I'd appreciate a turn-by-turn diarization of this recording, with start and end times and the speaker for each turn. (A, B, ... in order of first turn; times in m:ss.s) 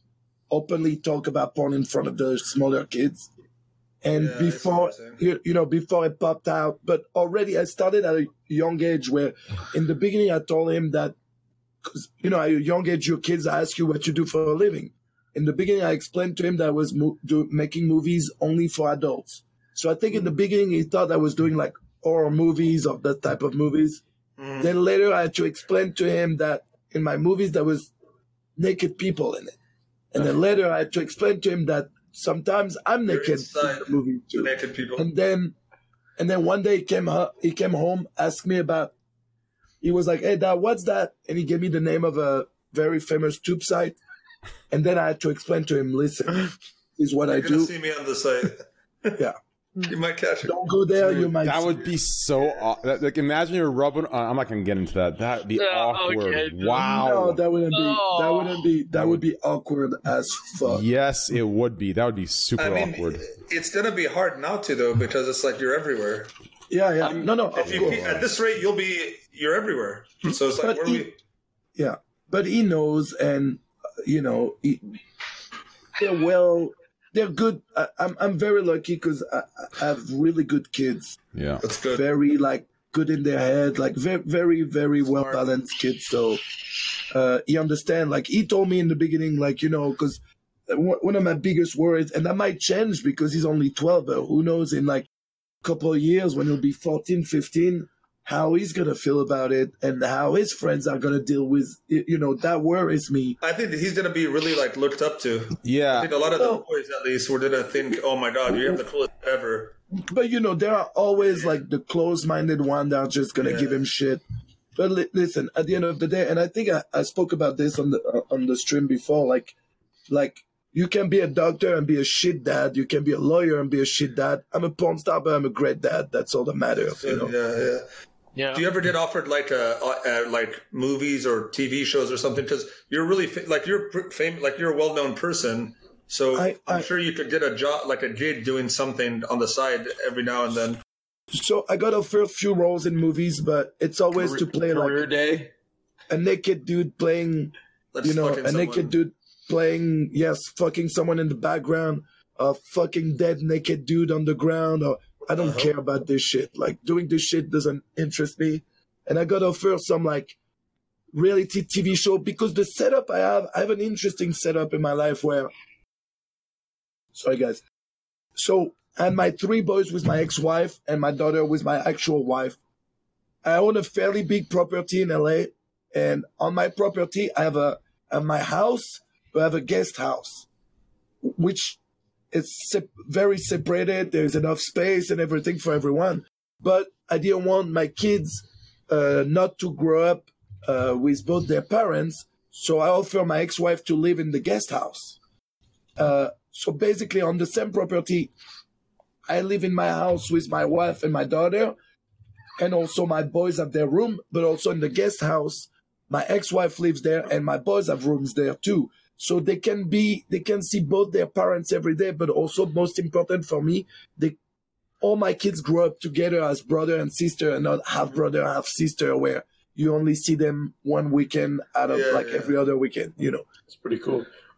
0:00.5-0:03.3 A
0:04.0-0:11.2 A
0:04.1-0:05.2 B
0:11.8-0:24.0 A
0:24.4-0:24.7 B
0:24.6-0:27.9 A
0:28.6-0:29.6 A
0:30.1-0:35.6 A
0:33.1-0:35.1 B
0:36.2-0:38.9 A
0:39.8-0:44.0 A
0:44.7-0:47.7 A
0:47.3-0:49.2 B
0:49.8-0:50.6 B
0:50.4-0:51.8 A
0:51.2-0:57.4 C
0:55.6-0:57.0 D
0:56.7-1:00.8 A
0:57.7-0:58.7 D
0:58.9-0:59.2 C
1:00.6-1:03.2 C
1:02.6-1:06.3 B
1:06.7-1:08.2 A
1:07.0-1:07.4 E
1:07.6-1:11.2 B
1:07.7-1:08.3 C
1:10.3-1:11.1 A
1:11.7-1:15.0 A
1:16.0-1:21.2 A
1:21.3-1:21.6 C
1:21.6-1:22.0 B
1:21.9-1:26.4 A
1:27.1-1:35.1 A
1:35.6-1:43.4 A
1:43.4-1:49.8 B
1:45.6-1:46.1 C
1:46.3-1:46.6 A
1:48.5-1:48.8 A
1:50.0-1:54.2 A
1:51.2-1:51.5 B
1:53.4-1:53.8 B
1:54.8-1:59.5 A
2:00.1-2:07.3 A
2:07.0-2:07.8 B
2:08.4-2:08.6 D
2:08.5-2:20.8 B
2:16.3-2:16.9 A
2:21.3-2:25.1 A
2:24.1-2:25.5 E
2:26.1-2:40.4 A
2:27.9-2:29.0 B
2:35.3-2:35.7 B
2:41.1-2:45.5 A
2:47.1-2:47.6 A
2:48.4-2:52.6 A
2:53.4-3:00.4 A
3:01.2-3:01.8 A
3:02.3-3:15.2 A
3:16.0-3:18.3 A
3:19.3-3:21.8 A
3:22.6-3:34.4 A
3:35.0-3:43.4 A
3:41.9-3:42.6 B
3:43.7-3:44.3 E